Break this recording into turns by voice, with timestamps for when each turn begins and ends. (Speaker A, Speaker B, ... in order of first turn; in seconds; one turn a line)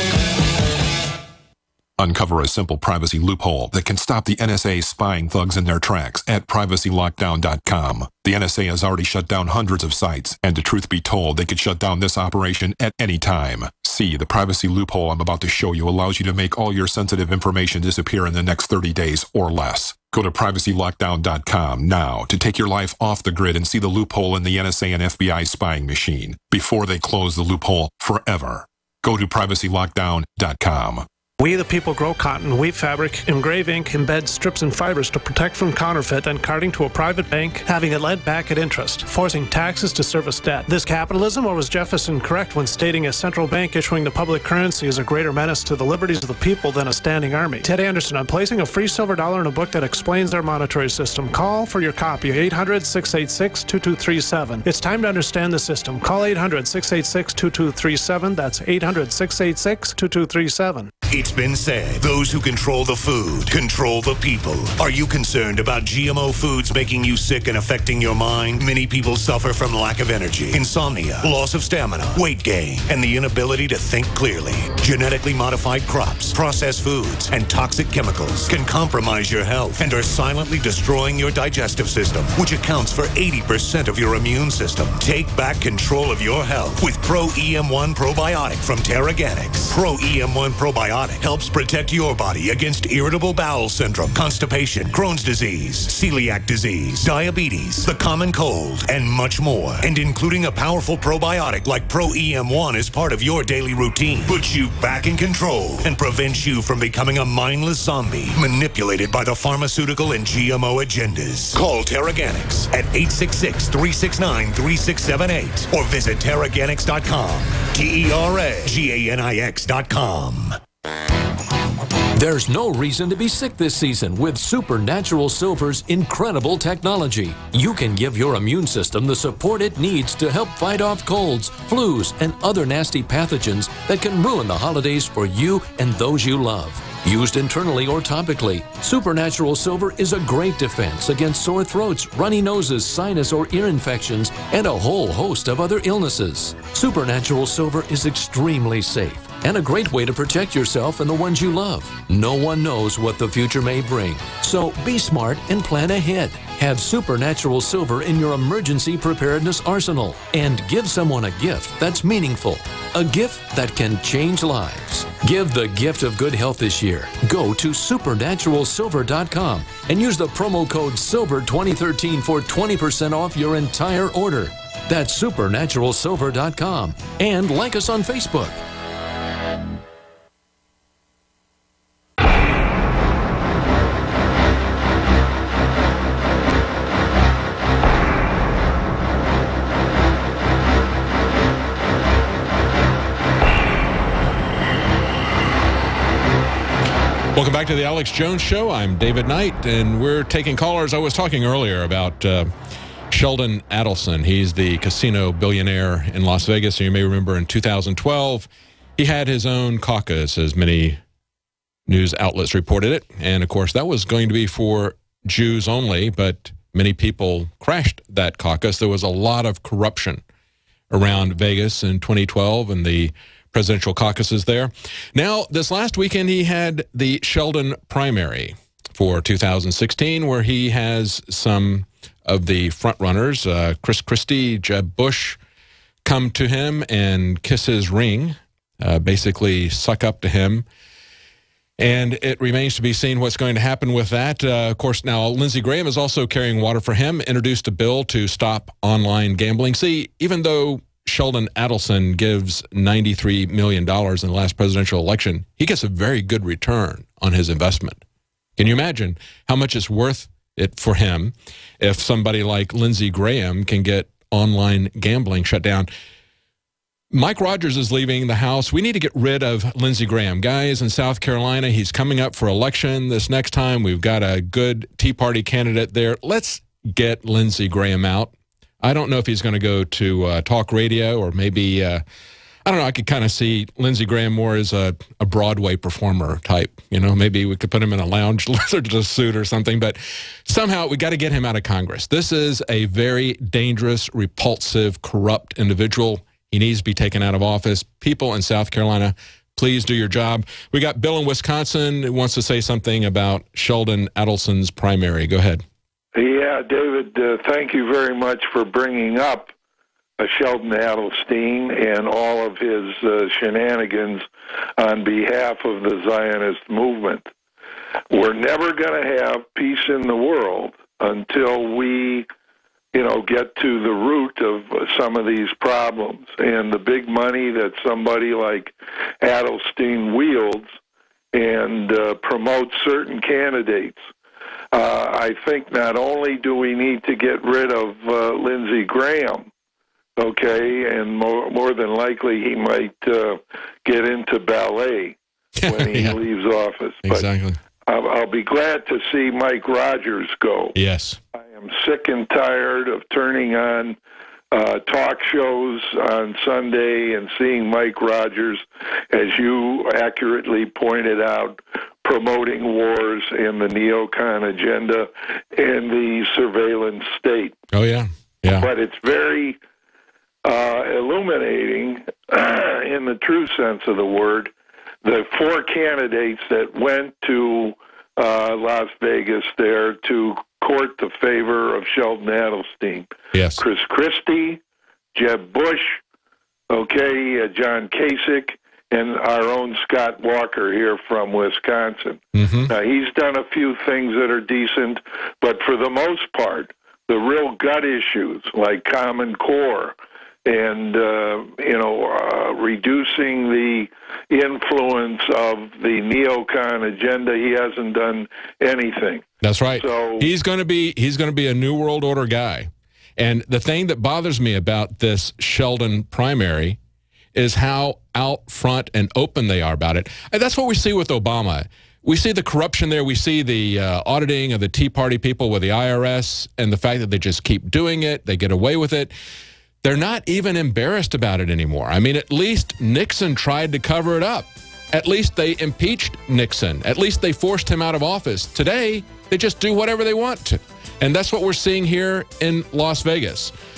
Speaker A: 2.0-31.1
Speaker B: 31.4-60.9
Speaker C: 61.1-120.6
Speaker D: 122.2-178.6
Speaker E: 197.3-202.5
Speaker E: 203.1-211.0
Speaker E: 211.9-220.2
Speaker E: 220.9-235.4
Speaker E: 236.1-240.7
Speaker E: 241.8-258.0
Speaker E: 258.6-265.9
Speaker E: 267.1-282.0
Speaker E: 282.6-305.6
Speaker F: 306.1-309.5
Speaker F: 310.2-314.3
Speaker F: 314.8-317.3
Speaker F: 318.1-322.3
Speaker F: 322.9-330.7
Speaker F: 331.3-334.0
Speaker F: 334.7-339.5
Speaker F: 340.2-347.3
Speaker E: 345.6-346.2
Speaker E: 347.1-347.6
Speaker F: 347.9-350.8
Speaker E: 350.7-351.2
Speaker F: 351.3-354.0
Speaker F: 354.5-367.6
Speaker E: 367.7-368.7
Speaker F: 368.6-369.6
Speaker F: 370.4-374.5
Speaker F: 375.0-384.6
Speaker E: 383.3-383.6
Speaker F: 385.1-386.0
Speaker F: 386.7-409.3
Speaker E: 392.3-392.7
Speaker E: 409.4-416.8
Speaker F: 409.8-410.3
Speaker E: 417.3-429.1
Speaker E: 429.8-443.5